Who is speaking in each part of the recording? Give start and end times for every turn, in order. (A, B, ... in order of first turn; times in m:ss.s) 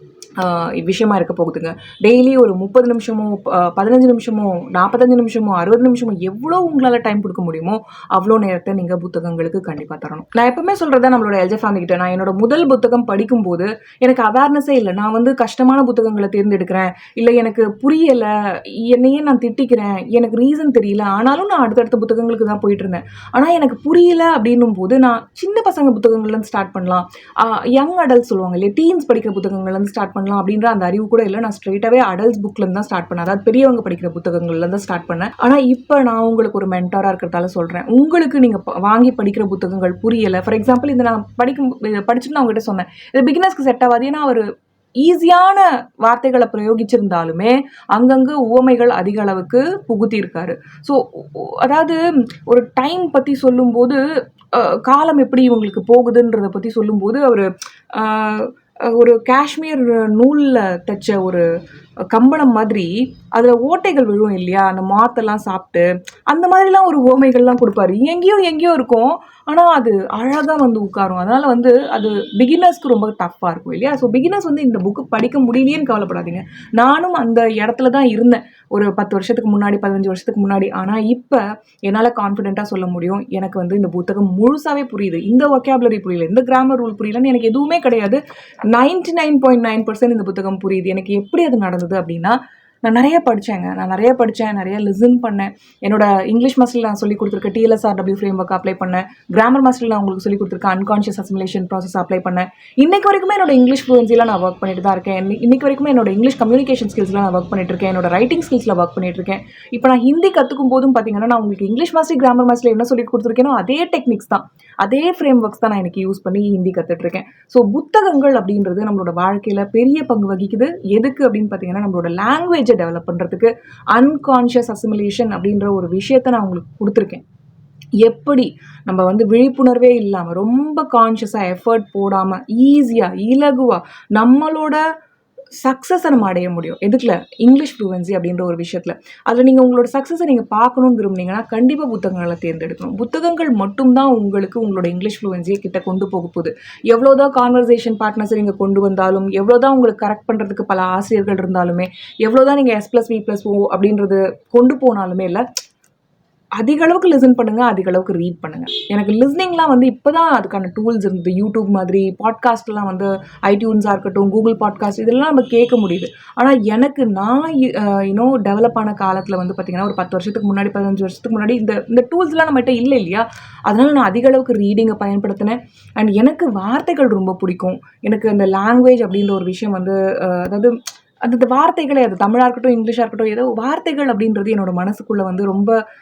0:00.4-0:44.4 A
0:45.0-0:54.0 A
0:54.5-1:01.4 A
1:02.1-1:28.2 A
1:28.7-2:07.2 A
2:08.0-2:14.8 A
2:15.6-2:35.4 A
2:36.6-3:05.8 A